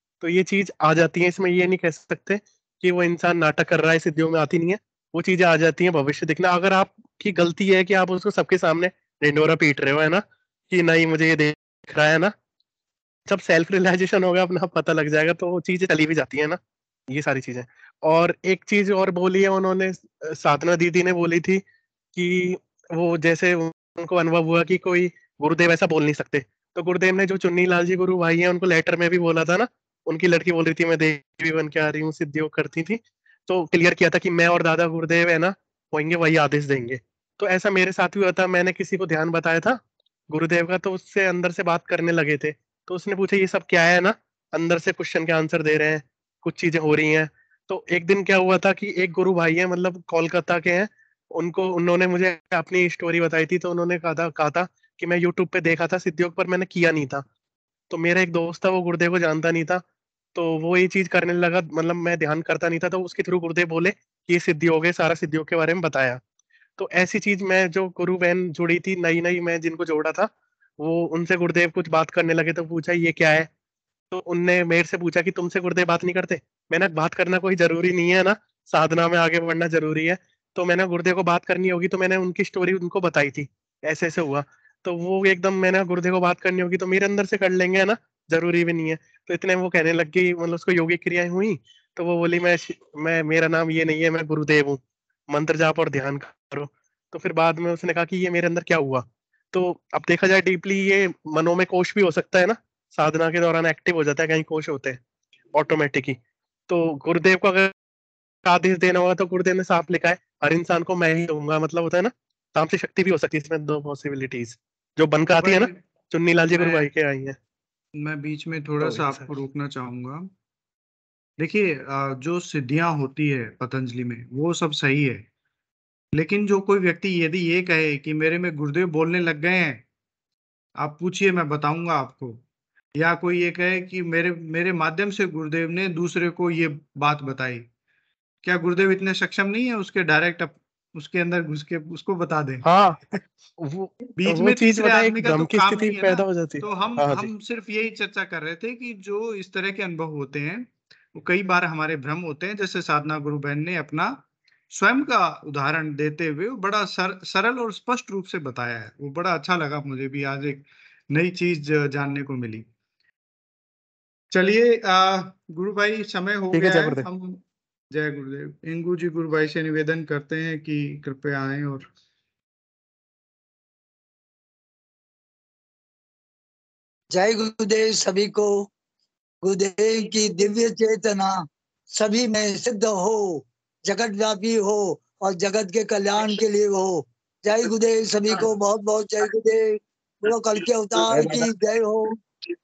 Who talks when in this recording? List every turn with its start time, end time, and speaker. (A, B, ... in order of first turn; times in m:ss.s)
0:00.2-0:12.3 A
0:13.3-0:21.6 A
0:22.2-0:57.2 A
0:57.9-0:59.8 A
1:00.4-1:06.2 A
1:06.8-1:13.5 A
1:14.1-1:45.0 A
1:45.6-1:46.2 A
1:46.7-1:47.7 A
1:48.5-1:57.4 A
1:55.4-1:55.8 B
1:56.6-1:56.9 B
1:58.0-2:00.3 B
1:58.8-1:59.3 A
2:01.4-2:05.3 B
2:06.2-2:09.8 B
2:10.8-2:12.4 B
2:13.0-2:17.7 B
2:18.4-2:22.6 B
2:22.6-2:23.0 A
2:23.6-2:27.3 A
2:24.2-2:34.2 B
2:34.7-2:42.7 B
2:44.3-2:51.9 B
2:46.5-2:47.1 A
2:57.1-2:58.7 C
2:59.4-3:12.2 C